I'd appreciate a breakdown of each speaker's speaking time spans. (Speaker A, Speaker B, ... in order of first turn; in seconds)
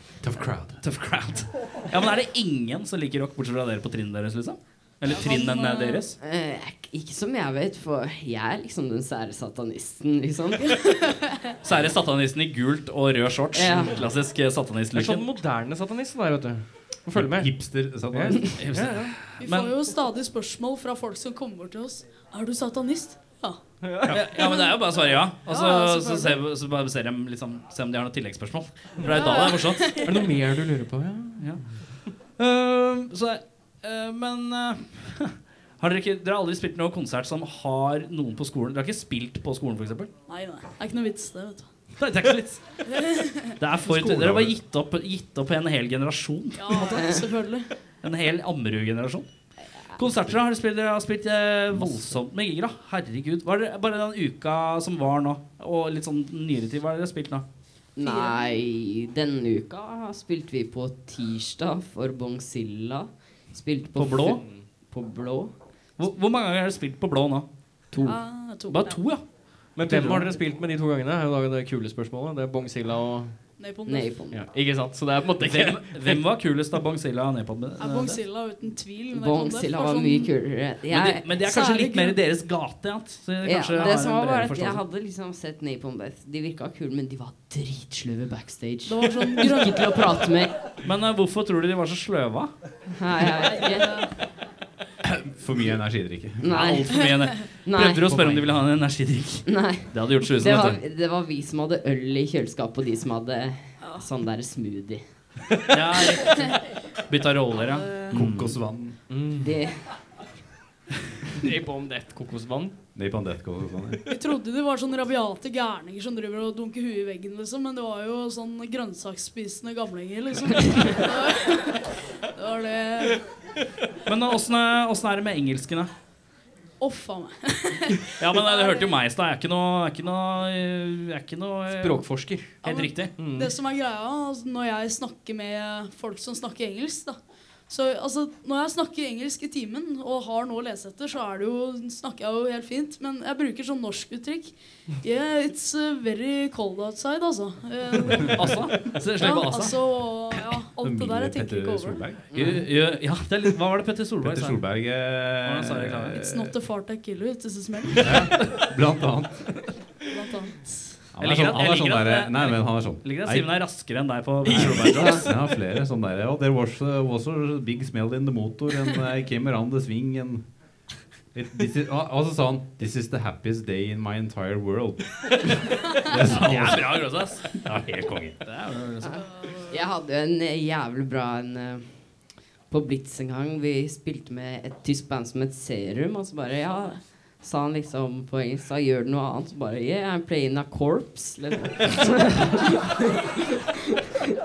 Speaker A: 0.2-0.8, 17.1-18.6, 43.9-44.6, 51.8-52.1, 95.0-96.6, 108.1-109.2, 112.9-114.0, 150.8-152.7, 154.2-156.6, 158.0-159.9, 161.1-178.4
Speaker B: 0.8-6.2, 11.6-15.3, 18.6-19.8, 24.1-30.1, 31.4-40.1, 42.0-47.1, 48.0-57.5, 64.0-64.5, 66.0-70.3, 75.4-78.2, 80.9-84.8, 90.8-92.7, 96.5-100.8, 105.7-108.6, 124.0-125.9, 128.2-133.1, 148.3-149.8, 152.3-154.9, 155.4-156.2, 161.2-165.3, 176.3-179.3
Speaker C: 5.1-6.1, 10.6-11.6, 19.4-26.4, 29.0-30.3, 40.3-42.1, 42.9-43.5, 46.5-47.7, 58.0-58.5, 68.0-69.3, 73.6-74.3, 77.8-80.5, 81.4-82.2, 88.9-90.4, 93.4-94.3, 97.0-97.3, 103.8-104.1, 107.5-108.2, 114.1-123.4, 126.8-128.9, 132.6-152.2, 156.1-158.3, 160.1-161.1, 179.2-179.8
Speaker D: 6.2-11.0, 13.5-14.1, 46.8-47.3, 49.8-50.0, 58.0-66.1, 67.9-68.2, 73.9-74.5, 79.1-81.5, 83.4-90.7, 93.0-94.1, 96.4-96.9, 97.5-98.6, 99.5-105.4, 109.4-110.2, 152.3-152.7, 179.1-193.4
Speaker E: 14.9-19.2, 23.8-24.2, 30.0-31.9, 64.4-64.7, 69.7-73.7, 74.3-76.2, 109.1-109.6, 111.4-112.9, 131.7-133.6, 164.4-165.4